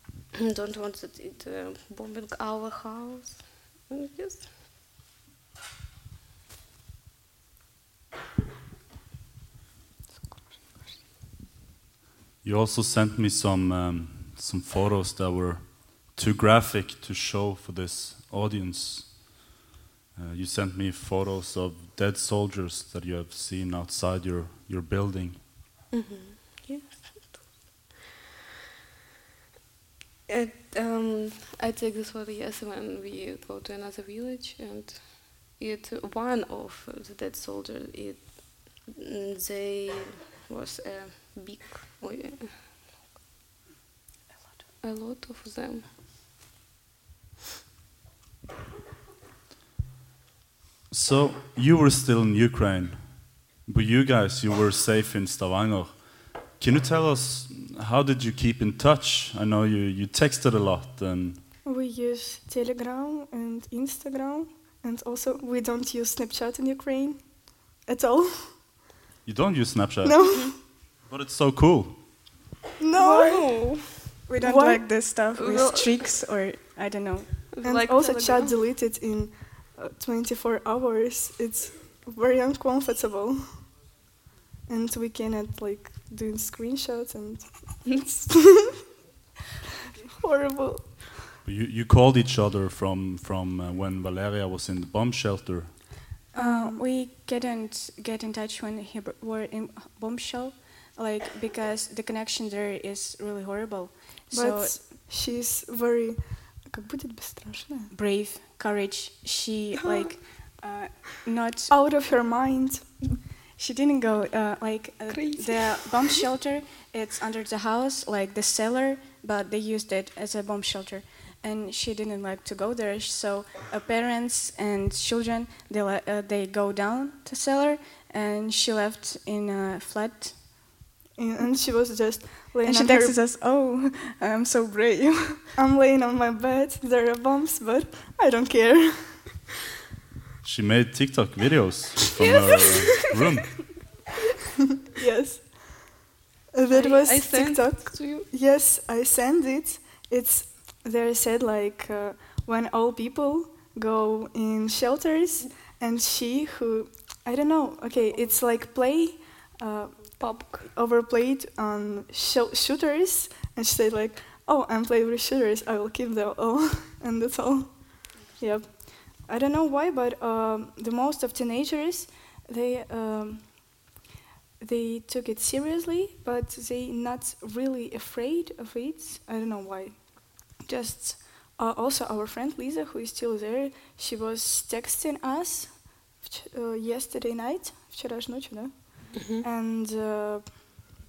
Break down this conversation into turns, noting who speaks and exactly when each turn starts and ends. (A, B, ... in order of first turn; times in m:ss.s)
0:00.4-0:04.5 A
0:12.4-0:19.4 B
0:20.2-0:25.4 B
0:25.9-0:27.9 A
0:30.3-0:42.6 A
0:44.8-0:45.9 A
0:50.9-1:01.4 B
1:01.6-1:08.7 C
1:09.2-1:12.3 B
1:10.0-1:10.5 C
1:12.8-1:13.5 C
1:13.0-1:14.1 A
1:14.3-1:17.4 D
1:14.4-1:14.8 C
1:15.4-1:16.1 A
1:17.5-1:18.6 A
1:17.6-1:23.8 C
1:24.6-1:28.7 C
1:30.1-1:31.2 C
1:31.4-1:35.8 B
1:36.3-1:44.8 D
1:36.4-1:36.8 C
1:44.3-1:47.9 C
1:47.9-1:51.7 D
1:51.7-1:53.0 C
1:53.6-2:10.7 D
1:55.1-1:56.2 A
2:11.2-2:13.2 C
2:12.6-2:15.5 D
2:15.6-2:19.3 C
2:20.4-2:23.8 B
2:22.2-2:23.3 A
2:24.9-2:26.0 C
2:26.5-2:53.8 C
2:26.7-2:28.3 A
2:40.2-2:40.7 A
2:54.6-3:10.9 C
3:09.2-3:09.4 A